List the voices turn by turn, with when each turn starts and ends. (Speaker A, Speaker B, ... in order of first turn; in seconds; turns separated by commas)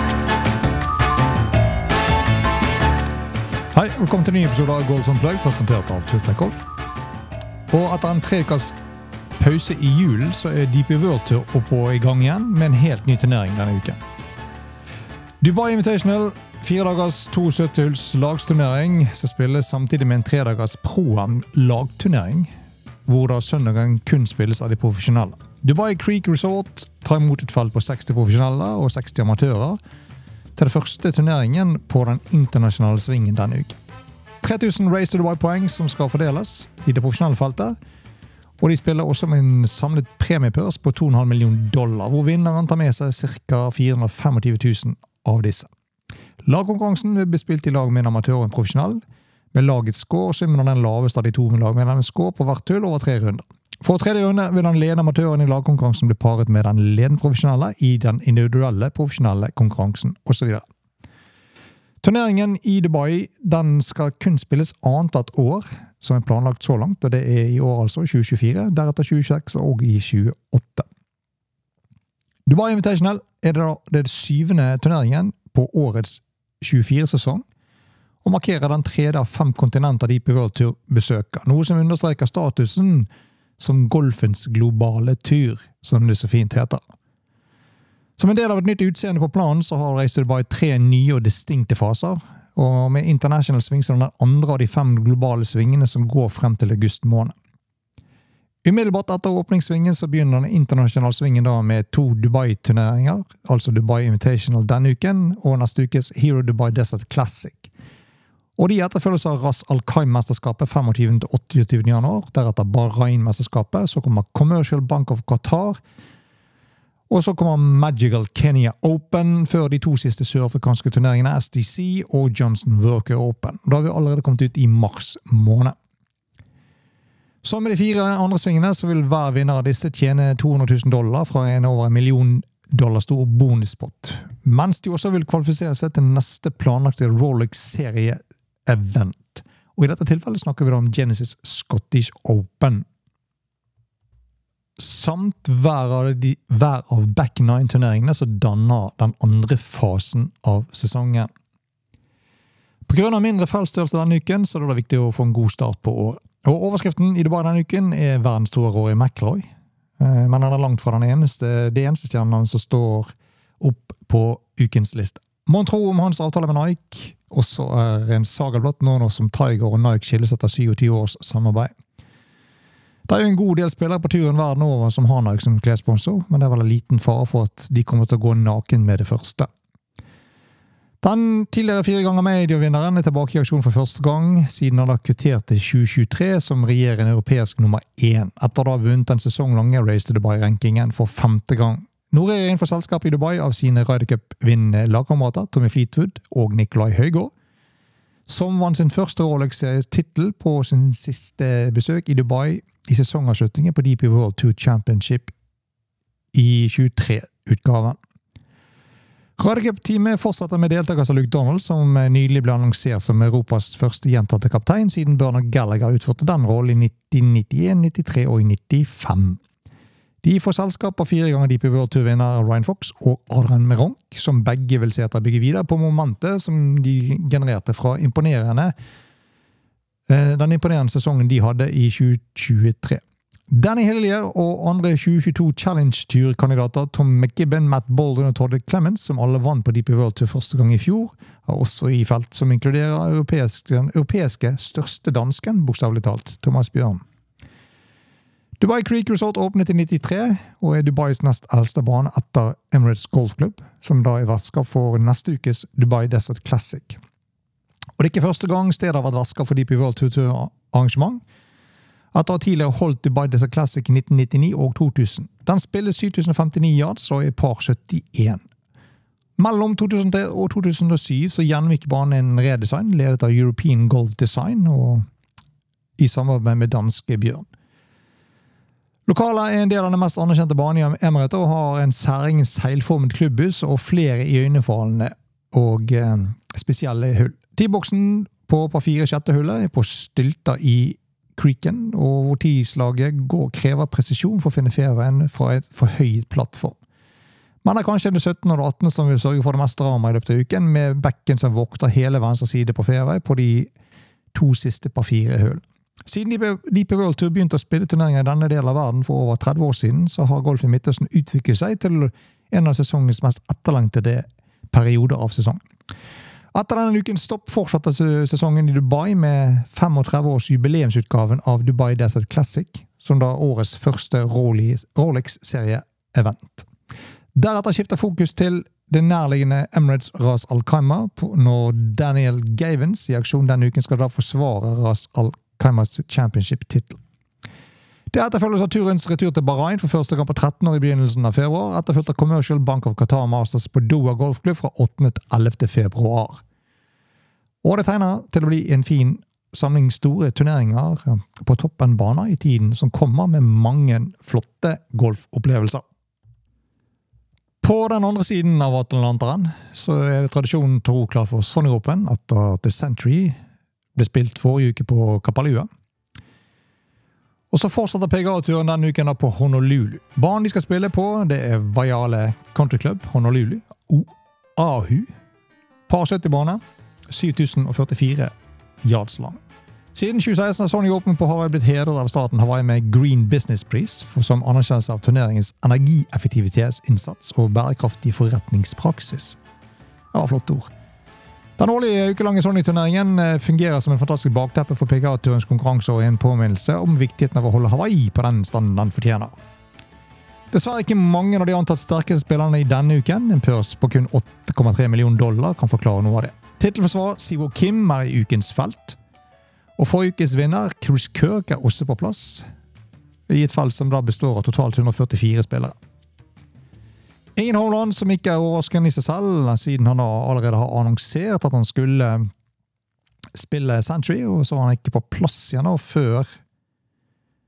Speaker A: 3.7-6.6, Speaker A: 7.7-8.8, Speaker A: 9.4-14.0, Speaker A: 15.4-22.5, Speaker A: 23.0-29.8, Speaker A: 30.6-33.8, Speaker A: 34.4-37.7, Speaker A: 38.6-45.7, Speaker A: 46.4-49.0, Speaker A: 49.5-60.6, Speaker A: 62.0-70.9, Speaker A: 72.5-77.4, Speaker A: 78.2-86.8, Speaker A: 88.2-97.3, Speaker A: 98.6-107.7, Speaker A: 108.6-115.8, Speaker A: 117.1-125.8, Speaker A: 127.4-142.9, Speaker A: 144.8-151.3, Speaker A: 152.9-159.5, Speaker A: 160.0-171.7, Speaker A: 173.1-179.5, Speaker A: 181.0-197.3, Speaker A: 198.3-205.3, Speaker A: 206.3-208.0, Speaker A: 209.4-219.4, Speaker A: 220.2-228.7, Speaker A: 230.1-247.0, Speaker A: 248.6-257.0, Speaker A: 258.0-261.2, Speaker A: 262.1-268.4, Speaker A: 269.4-275.1, Speaker A: 276.0-277.5, Speaker A: 279.1-296.8, Speaker A: 297.6-303.7, Speaker A: 304.3-315.6, Speaker A: 316.5-326.7, Speaker A: 327.3-337.0, Speaker A: 338.1-346.4, Speaker A: 347.6-355.8, Speaker A: 357.6-363.4, Speaker A: 363.9-365.7, Speaker A: 367.5-375.1, Speaker A: 375.9-379.4, Speaker A: 379.9-389.4, Speaker A: 390.1-390.7, Speaker A: 391.6-399.3, Speaker A: 400.5-409.0, Speaker A: 409.8-412.5, Speaker A: 413.3-415.7, Speaker A: 417.4-422.3, Speaker A: 423.3-426.4